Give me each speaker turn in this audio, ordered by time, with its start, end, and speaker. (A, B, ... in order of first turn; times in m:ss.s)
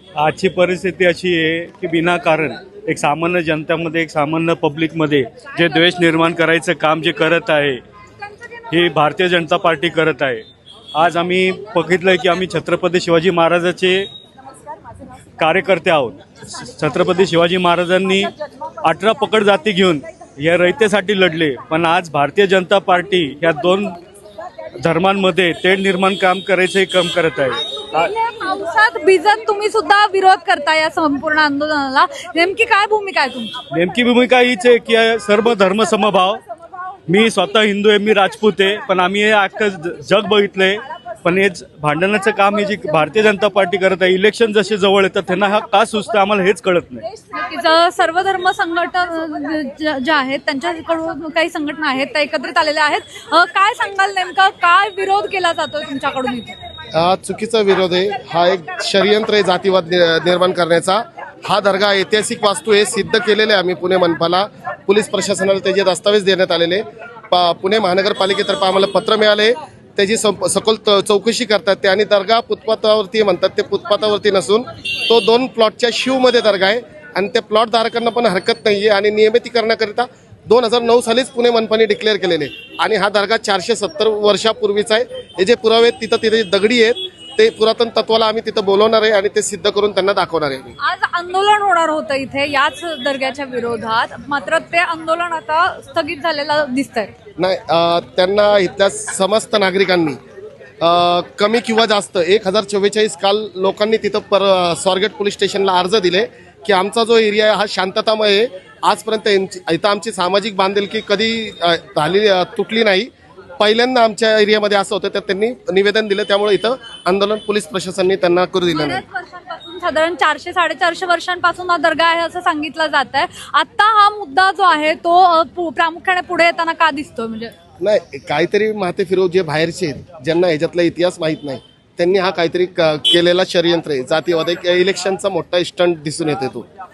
0:00.2-0:07.8 A
0:08.7-0:10.4 A
0:10.9-0:14.1 A
0:15.4-0:24.0 A
0:24.8-0:28.1 A
0:27.8-0:33.6 B
0:33.7-0:36.4 A
0:37.1-0:47.1 A
0:47.3-0:56.6 B
0:56.9-1:30.8 C
1:30.8-1:37.1 B
1:37.4-1:40.2 C
1:40.8-1:59.0 C
1:58.7-2:07.5 B
2:07.8-2:16.7 C